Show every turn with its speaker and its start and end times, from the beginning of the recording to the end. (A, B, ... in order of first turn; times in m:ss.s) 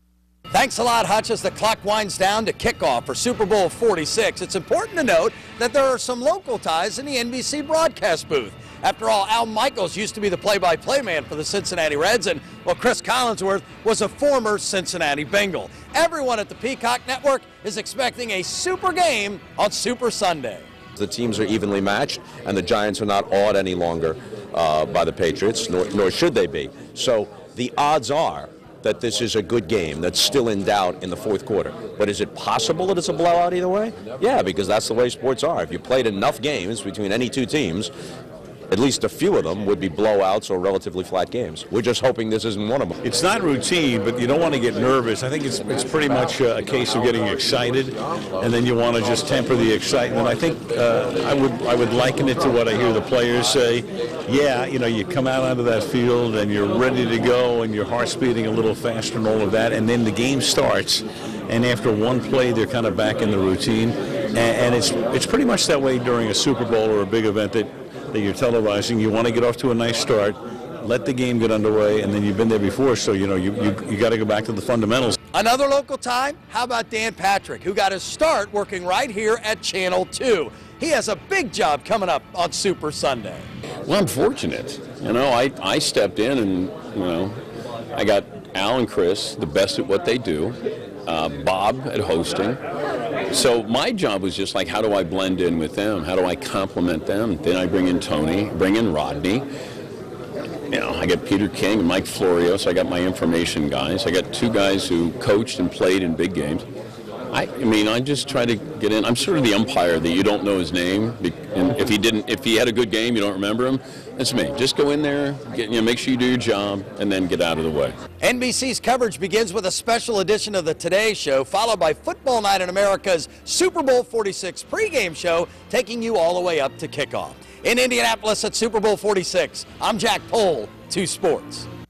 0:00.5-0:20.6 A
0:21.0-0:37.9 B
0:38.7-0:43.0 B
0:43.0-1:15.2 C
1:15.3-1:23.5 A
1:23.8-1:27.3 D
1:28.0-1:32.6 D
1:33.3-1:39.5 D
1:40.7-1:46.6 D
1:47.3-1:58.0 D
1:58.2-2:11.7 A